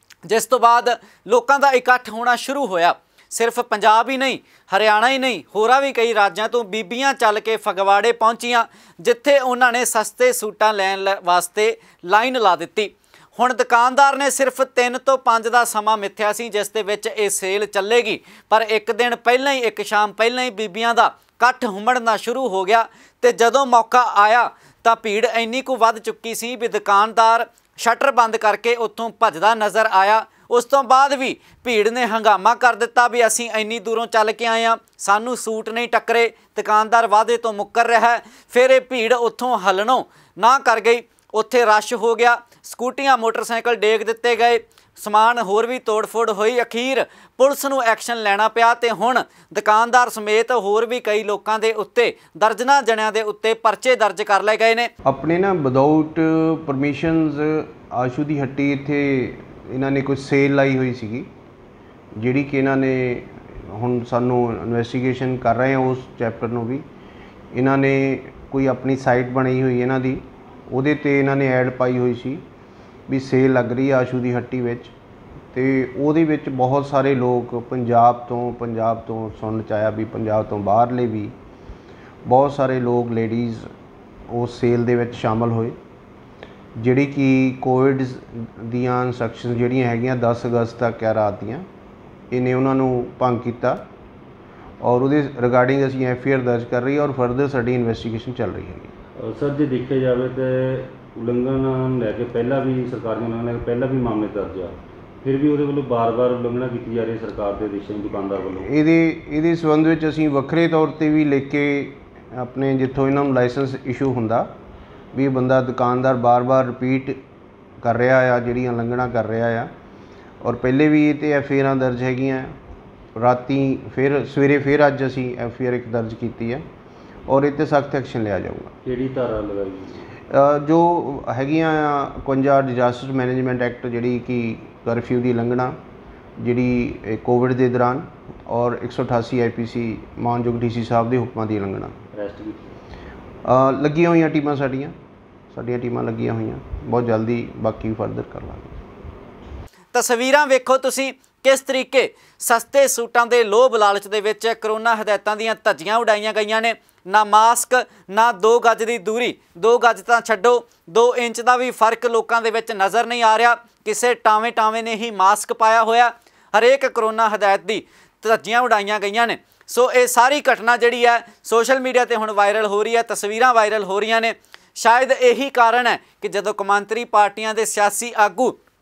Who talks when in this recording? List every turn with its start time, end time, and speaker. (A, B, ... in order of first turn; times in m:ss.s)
0:00.2-0:54.9 A
0:55.0-1:01.3 B
1:02.2-1:06.8 B
1:07.5-1:12.4 B
1:13.1-1:14.9 B
1:15.5-1:21.3 B
1:22.2-1:23.6 B
1:24.3-1:25.8 B
1:26.8-1:31.6 B
1:32.3-1:33.8 B
1:34.8-1:38.9 B
1:39.2-1:48.7 C
1:48.6-1:54.5 B
1:55.1-1:57.2 B
1:57.8-1:59.7 B
2:00.4-2:02.5 B
2:03.2-2:06.6 B
2:07.3-2:08.7 B
2:08.8-2:10.0 C
2:10.3-2:15.8 B
2:16.4-2:22.0 B
2:22.1-2:22.6 C
2:23.4-2:24.9 B
2:25.5-2:28.8 B
2:29.9-2:58.6 A